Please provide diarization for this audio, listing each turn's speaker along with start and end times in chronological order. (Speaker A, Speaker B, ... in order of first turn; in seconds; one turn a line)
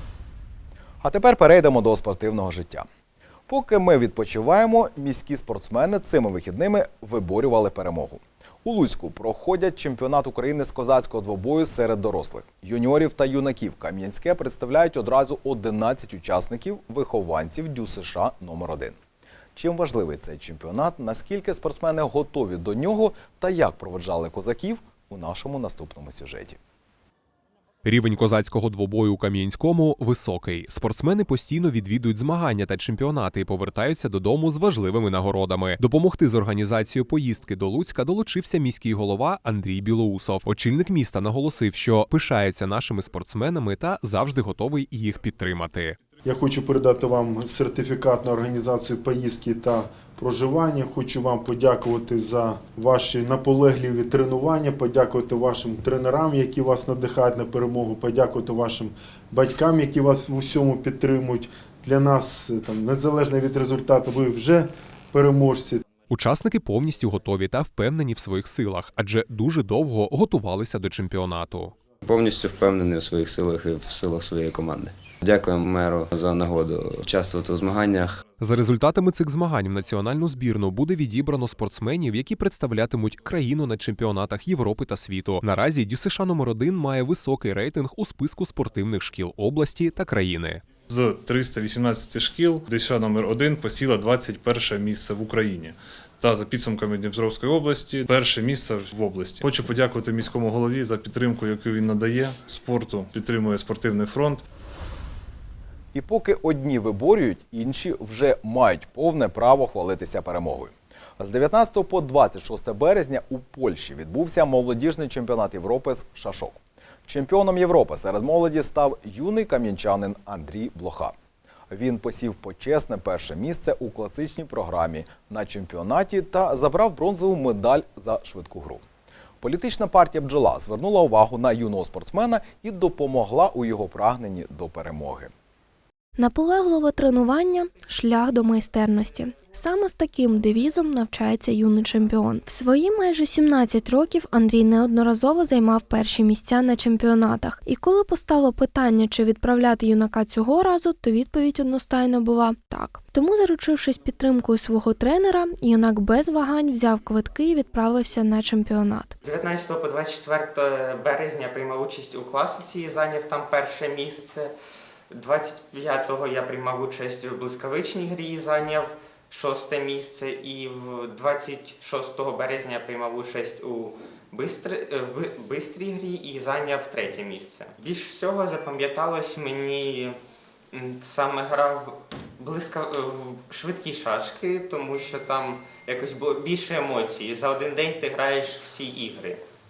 Speaker A: 1.0-2.9
Speaker A: 3.5-19.0
Speaker A: 19.6-26.6
Speaker B: 27.9-46.0
Speaker C: 46.2-65.8
Speaker B: 66.1-71.7
Speaker D: 72.0-78.2
Speaker B: 78.4-90.6
Speaker E: 90.9-104.4
Speaker A: 105.9-121.1
Speaker A: 121.7-128.8
Speaker A: 129.4-135.3
Speaker F: 136.2-159.2
Speaker G: 159.2-164.5
Speaker G: 165.1-180.2
Speaker G: 180.7-189.4